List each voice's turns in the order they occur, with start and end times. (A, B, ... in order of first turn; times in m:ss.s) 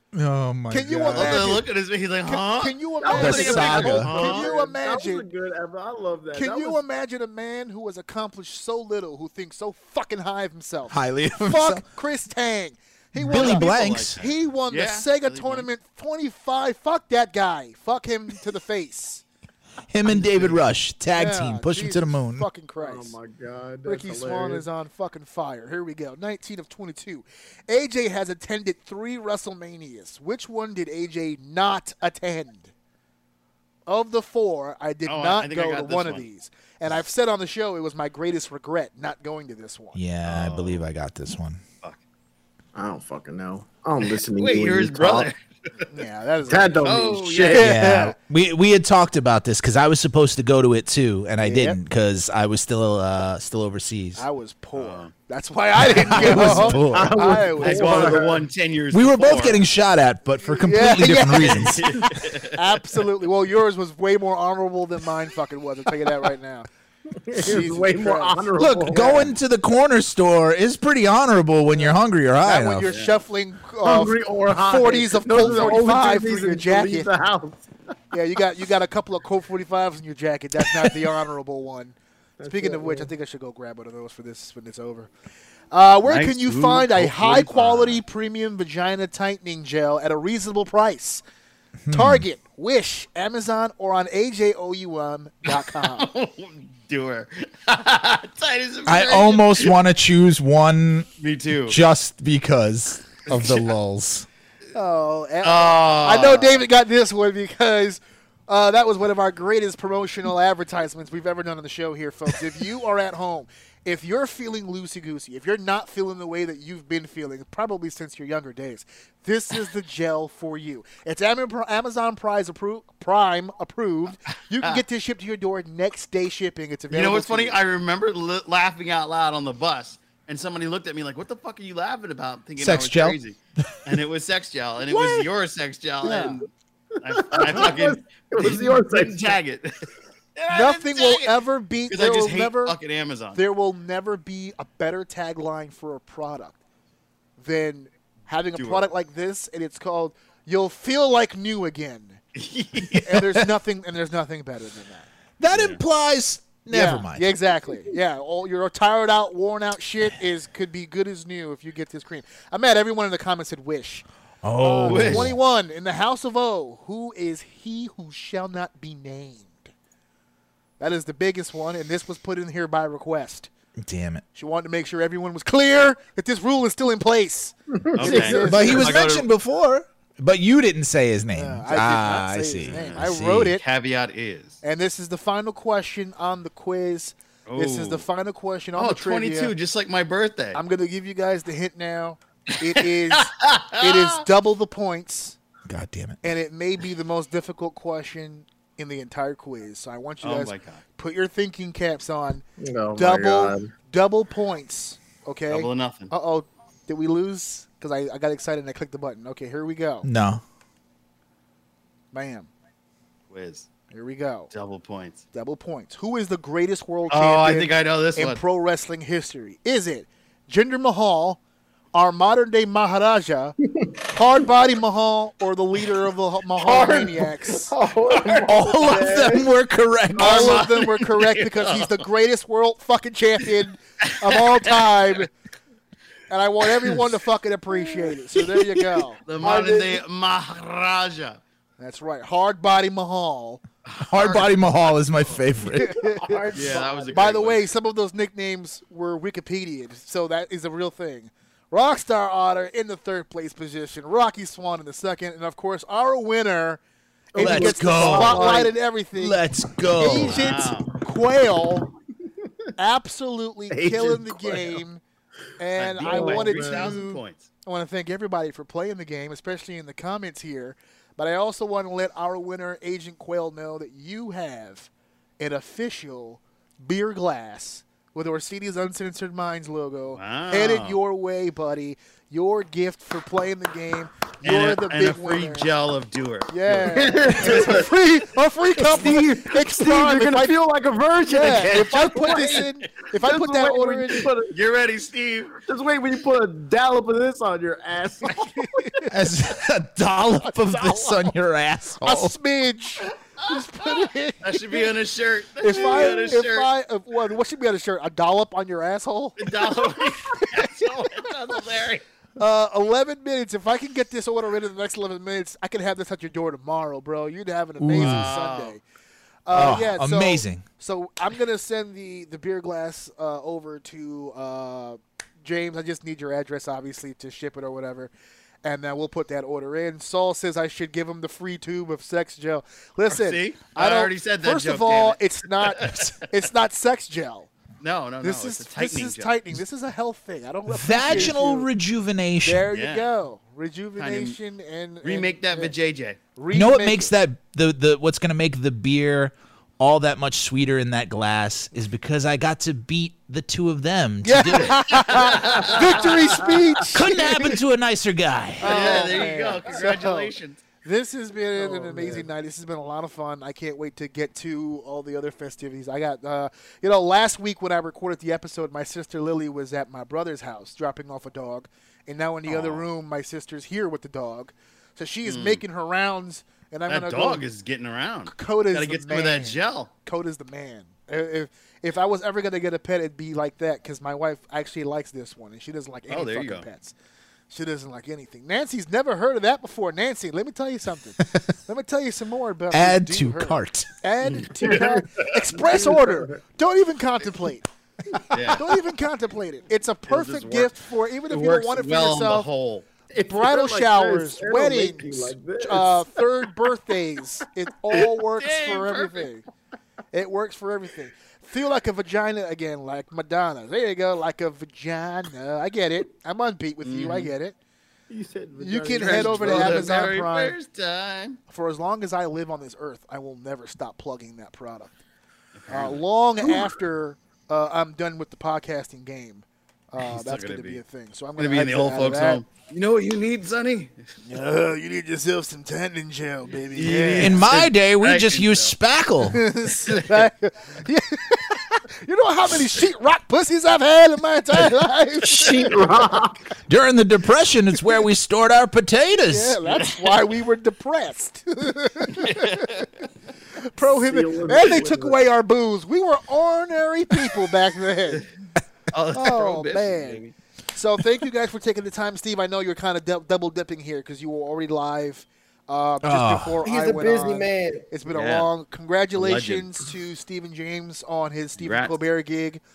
0:00.1-0:01.6 A
0:00.7-0:01.7 B
0:01.1-0:04.5 C
0:02.2-0:05.3 B
0:03.0-0:06.8 D
0:03.1-0:04.1 A
0:06.3-0:19.2 B
0:10.9-0:11.8 A
0:13.1-0:14.2 A
0:13.2-0:15.7 C
0:19.9-0:22.4 A
0:21.1-0:23.2 B
0:22.8-0:24.7 D
0:23.8-0:32.7 B
0:33.9-0:40.0 B
0:35.0-0:36.2 C
0:39.9-0:41.6 A
0:40.2-0:40.8 C
0:42.7-0:45.3 D
0:44.2-0:45.4 C
0:45.9-0:48.1 B
0:46.4-0:47.7 D
0:46.8-0:47.6 C
0:47.5-0:54.2 A
0:51.4-0:51.8 B
0:54.2-0:58.4 B
0:54.8-0:55.1 C
0:55.9-0:57.2 A
0:56.1-0:58.4 D
0:57.6-0:59.6 C
0:58.9-1:01.9 A
1:00.4-1:06.7 B
1:01.4-1:02.8 C
1:07.2-1:09.4 D
1:07.3-1:08.5 B
1:08.6-1:12.9 A
1:11.7-1:17.1 B
1:12.8-1:13.2 C
1:13.8-1:17.7 D
1:18.1-1:21.9 B
1:22.4-1:23.1 D
1:22.4-1:25.1 B
1:25.7-1:31.2 B
1:26.0-1:28.0 C
1:31.8-1:32.2 A
1:31.9-1:36.1 B
1:35.4-1:39.7 C
1:38.8-1:41.1 A
1:41.2-1:41.8 C
1:41.7-1:44.3 A
1:43.2-1:43.7 C
1:44.7-2:07.6 B
1:45.4-1:46.6 C
2:06.9-2:16.5 C
2:12.6-2:13.2 A
2:14.9-2:15.2 B
2:16.0-2:16.4 B
2:17.0-2:19.7 C
2:17.0-2:19.4 D
2:20.4-2:21.4 C
2:20.5-2:22.8 B
2:21.9-2:23.4 C
2:23.3-2:26.6 B
2:27.4-2:32.2 B
2:28.6-2:28.8 C
2:32.4-2:33.1 C
2:33.0-2:35.1 B
2:35.4-2:37.3 A
2:35.5-2:35.8 C
2:36.7-2:44.0 B
2:44.4-2:45.4 A
2:44.6-2:49.7 B
2:44.7-2:45.3 C
2:50.8-2:53.5 B
2:53.8-2:54.2 A
2:54.3-2:59.0 B
2:57.7-2:58.3 D
2:57.9-2:59.3 C
2:58.1-3:03.5 A
3:01.3-3:03.6 B
3:02.6-3:04.6 C
3:04.6-3:09.5 B
3:07.5-3:08.0 C
3:08.8-3:10.6 C
3:10.5-3:15.4 B
3:12.6-3:14.2 C
3:15.7-3:16.2 A
3:16.2-3:22.4 B
3:20.2-3:20.8 C
3:22.6-3:23.7 D
3:22.9-3:30.1 B
3:25.5-3:26.1 C
3:30.0-3:30.4 A
3:32.1-3:32.5 B
3:33.3-3:33.7 C
3:33.9-3:34.5 B
3:34.5-3:35.2 C
3:35.3-3:41.4 B
3:37.1-3:38.4 C
3:41.9-3:47.7 B
3:46.6-3:49.5 D
3:48.4-3:50.6 A
3:50.1-3:50.6 D
3:50.2-3:55.3 B
3:50.2-3:52.0 C
3:54.0-3:55.2 C
3:56.3-3:59.2 B
3:58.4-3:58.8 A
3:59.2-4:01.4 C
3:59.4-4:00.0 D
4:01.8-4:03.6 B
4:03.8-4:05.4 C
4:04.0-4:06.0 A
4:05.7-4:16.8 B
4:05.8-4:07.2 D
4:06.5-4:07.7 C
4:17.3-4:19.4 B
4:17.3-4:18.7 D
4:17.4-4:20.5 A
4:20.0-4:21.9 B
4:20.1-4:20.9 C
4:22.8-4:25.0 B
4:23.7-4:24.8 D
4:25.6-4:45.7 B
4:25.8-4:27.5 C
4:26.0-4:27.0 D
4:40.2-4:41.0 C
4:44.4-4:47.4 C
4:46.5-4:50.6 B
4:46.8-4:47.9 D
4:48.8-4:54.6 D
4:51.2-4:54.3 B
4:54.5-4:55.6 C
4:55.7-4:58.7 D
4:58.6-4:59.1 B
4:59.1-5:02.3 A
5:00.5-5:01.3 B
5:02.0-5:04.9 B
5:04.4-5:06.7 C
5:05.6-5:10.5 B
5:09.4-5:12.0 C
5:12.4-5:18.8 B
5:17.8-5:18.3 A
5:17.9-5:18.8 C
5:19.4-5:28.1 B
5:19.5-5:20.6 A
5:28.6-5:37.5 B
5:33.1-5:36.2 C
5:37.8-5:39.3 C
5:38.2-5:41.7 B
5:40.7-5:42.7 A
5:41.0-5:41.3 C
5:42.4-5:45.7 B
5:42.7-5:43.1 C
5:44.0-5:44.4 C
5:45.0-5:46.2 C
5:46.3-5:47.1 B
5:46.5-5:55.1 A
5:54.2-5:57.5 B
5:54.4-5:56.1 C
5:55.3-5:56.8 D
5:56.9-5:59.0 A
5:58.6-6:17.4 B
5:58.6-6:00.6 C
6:01.5-6:02.3 D
6:12.5-6:12.9 C
6:15.2-6:15.6 C
6:16.9-6:19.9 C
6:18.3-6:26.9 B
6:26.1-6:26.6 C
6:27.5-6:42.5 B
6:32.7-6:33.9 A
6:34.3-6:36.4 D
6:38.3-6:38.8 C
6:40.1-6:40.7 C
6:41.3-6:42.8 C
6:43.1-6:46.1 D
6:43.3-6:49.4 B
6:47.9-6:49.3 C
6:50.1-6:57.6 B
6:56.8-6:57.3 C
6:58.1-7:00.1 D
6:58.6-7:00.6 B
6:59.0-7:01.4 C
7:01.5-7:04.9 B
7:05.6-7:06.0 C
7:05.7-7:12.4 B
7:10.0-7:10.8 C
7:11.4-7:13.9 C
7:14.2-7:17.6 B
7:16.5-7:18.7 C
7:17.2-7:19.4 A
7:19.2-7:25.8 B
7:19.8-7:20.3 C
7:25.2-7:26.4 D
7:26.7-7:29.6 A
7:29.3-7:33.0 B
7:29.8-7:30.1 C
7:32.1-7:32.9 C
7:33.6-7:38.2 B
7:33.8-7:35.2 D
7:38.9-7:40.3 C
7:39.1-7:52.6 B
7:46.0-7:46.6 A
7:46.6-7:47.9 D
7:48.1-7:48.5 C
7:49.1-7:49.7 C
7:51.6-7:52.0 C